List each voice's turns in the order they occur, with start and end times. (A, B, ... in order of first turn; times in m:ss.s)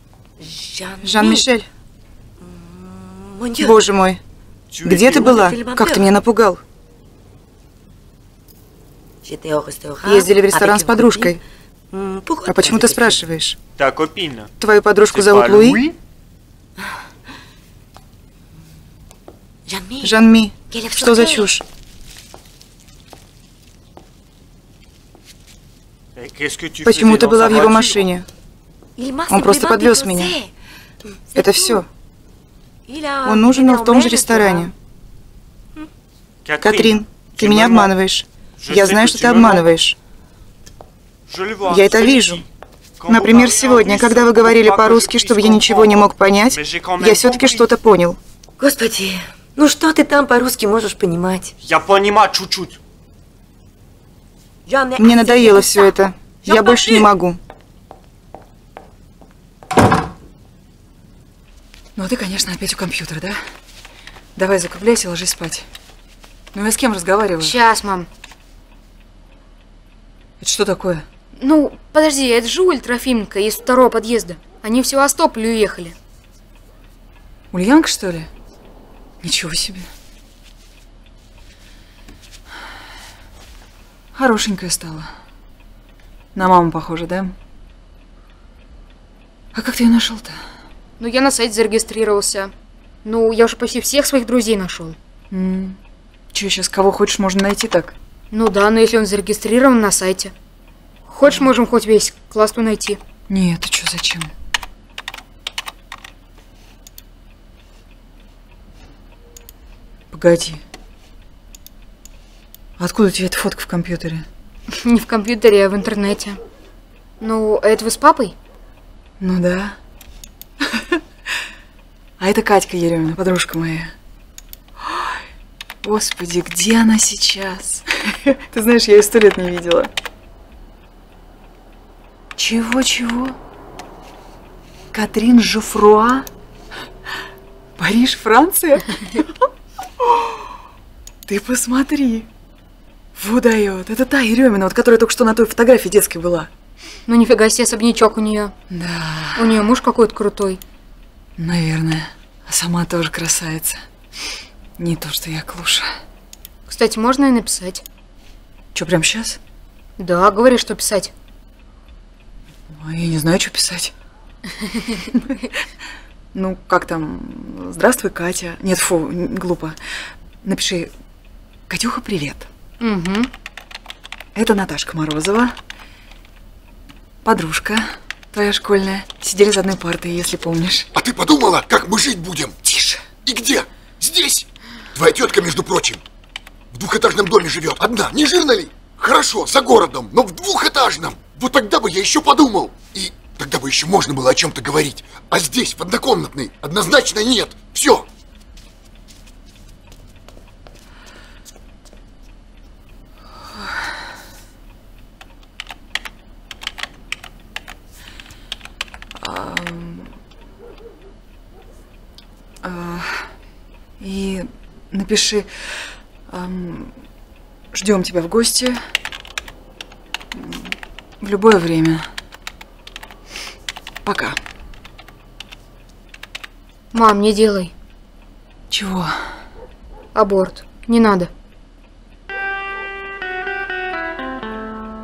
0:00.4-0:01.5 A
0:01.0-0:01.7 B
0:02.4-0:03.8 A
0:03.6-0:04.2 B
0:04.7-0:05.5 C
0:04.8-0:06.6 B
0:05.1-0:06.1 A
0:09.2-0:11.4 A
0:10.0-0:11.4 B
0:11.9-0:13.2 A
0:12.5-0:13.6 B
0:13.8-0:14.5 C
0:14.6-0:15.8 B
0:15.0-0:16.0 C
0:19.7-0:21.5 A
0:20.0-0:21.6 B
0:26.2-0:28.1 C
0:26.8-0:28.2 B
0:29.0-0:30.5 A
0:29.3-0:30.4 B
0:31.3-0:31.8 A
0:31.4-0:31.9 B
0:32.9-0:34.7 A
0:33.2-0:34.7 B
0:36.4-0:38.0 C
0:36.6-0:40.0 B
0:38.6-0:39.7 C
0:41.3-0:42.4 C
0:41.7-0:42.4 B
0:43.0-0:47.8 C
0:43.1-0:48.2 B
0:48.6-0:51.5 A
0:51.6-0:52.8 C
0:54.7-0:57.1 A
0:55.0-0:57.4 B
1:02.0-1:03.4 D
1:04.4-1:05.7 D
1:06.5-1:07.6 D
1:07.4-1:08.1 E
1:10.4-1:11.1 D
1:11.4-1:16.0 E
1:17.5-1:18.3 D
1:19.2-1:19.9 D
1:24.2-1:25.1 D
1:26.4-1:27.4 D
1:29.5-1:30.4 D
1:31.0-1:32.5 E
1:33.0-1:35.0 E
1:35.3-1:35.8 D
1:36.3-1:38.0 D
1:38.3-1:40.3 E
1:41.1-1:43.0 E
1:43.3-1:44.3 D
1:50.1-1:50.6 D
1:52.8-1:54.3 D
1:54.7-1:56.4 E
1:57.2-1:58.4 E
1:59.2-1:59.8 D
2:02.2-2:03.9 D
2:05.8-2:09.9 D
2:12.4-2:13.4 D
2:14.9-2:16.3 D
2:17.8-2:19.3 D
2:21.3-2:22.3 D
2:23.2-2:26.5 D
2:27.1-2:28.5 E
2:28.7-2:29.4 D
2:29.4-2:30.6 E
2:31.4-2:33.8 D
2:34.8-2:35.9 D
2:36.7-2:37.8 E
2:38.8-2:39.4 D
2:40.0-2:41.1 E
2:42.7-2:43.9 D
2:46.3-2:49.8 D
2:50.4-2:50.9 D
2:51.7-2:52.5 D
2:52.8-2:53.3 E
2:54.4-2:55.6 D
2:57.2-3:00.9 D
3:00.9-3:02.6 F
3:02.6-3:03.0 D
3:03.2-3:06.0 F
3:06.7-3:18.0 F
3:29.2-3:30.1 D
3:32.6-3:33.3 D
3:34.0-3:35.5 D
3:36.3-3:36.9 D
3:37.7-3:38.8 D
3:40.3-3:42.1 D
3:44.0-3:44.4 D
3:46.9-3:47.7 E
3:48.7-3:49.1 D
3:50.2-3:51.3 E